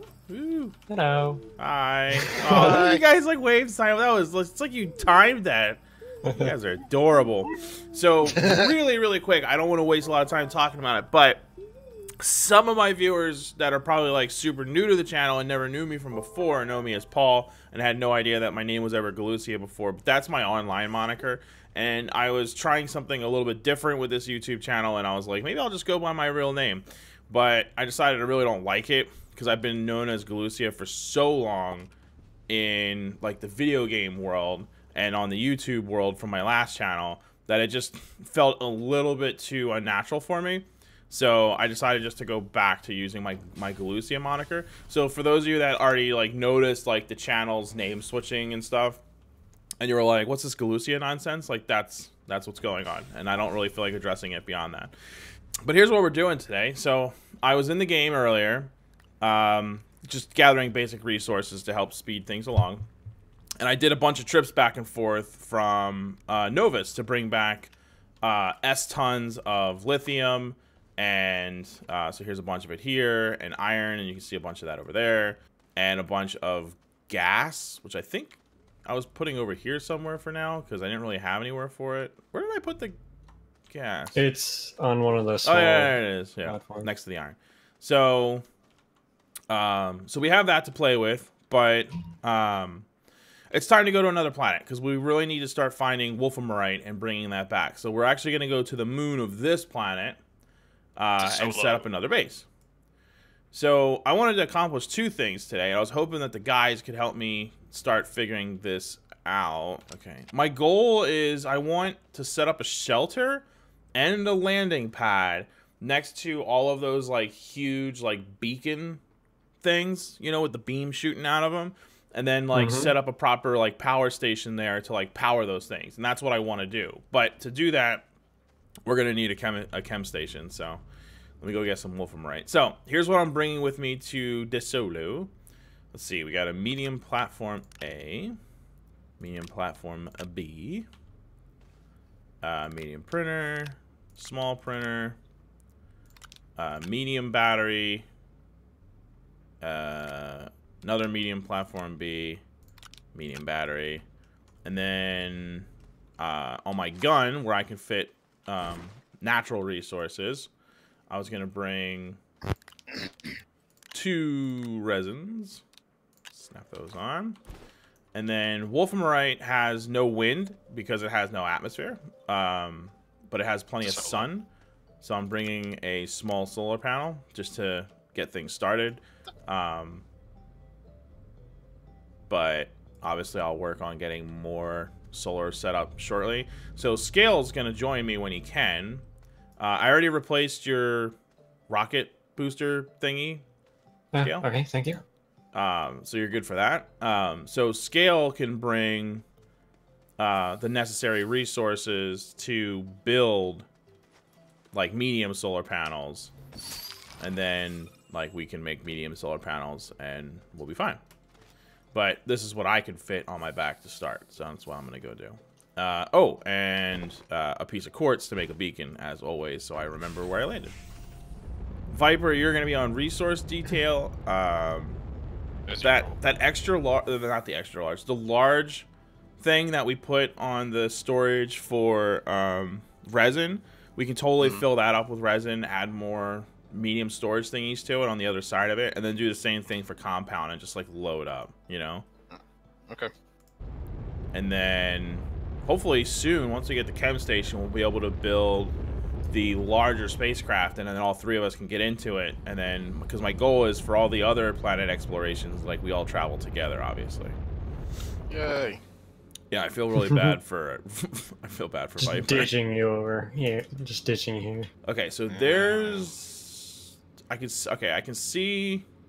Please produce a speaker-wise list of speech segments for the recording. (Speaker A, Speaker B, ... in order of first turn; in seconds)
Speaker A: 0.3-0.8, 1.6-11.4, 12.2-31.9, 32.5-49.0, 49.8-54.9, 55.6-62.9, 63.6-83.0, 83.7-84.2, 85.4-88.4, 89.5-92.9, 93.5-100.2, 101.0-102.5, 103.5-119.0, 119.6-128.1, 128.9-130.8, 131.4-135.3, 135.9-138.4, 139.2-140.9, 142.4-145.2, 146.6-148.1, 149.6-152.4, 153.1-154.0, 154.7-155.7, 156.2-160.5, 161.1-162.2, 163.9-165.6, 166.3-167.4, 168.1-174.5, 175.0-180.0, 182.3-189.1, 189.6-191.2, 191.7-193.4, 194.2-194.5, 195.5-199.2, 200.2-203.7, 204.7-206.3, 207.2-211.0, 211.9-220.8, 221.9-225.0, 225.8-228.9, 229.4-242.1, 244.3-248.7, 249.3-257.4, 259.5-262.5, 264.9-268.9
Speaker B: 0.9-1.5, 2.1-2.9, 6.3-6.5, 84.2-86.9, 122.5-122.9, 194.1-195.0, 259.9-260.4, 262.0-264.7
Speaker C: 2.5-3.0, 101.2-101.9, 173.8-174.3, 225.7-226.2, 258.3-258.8, 265.3-266.1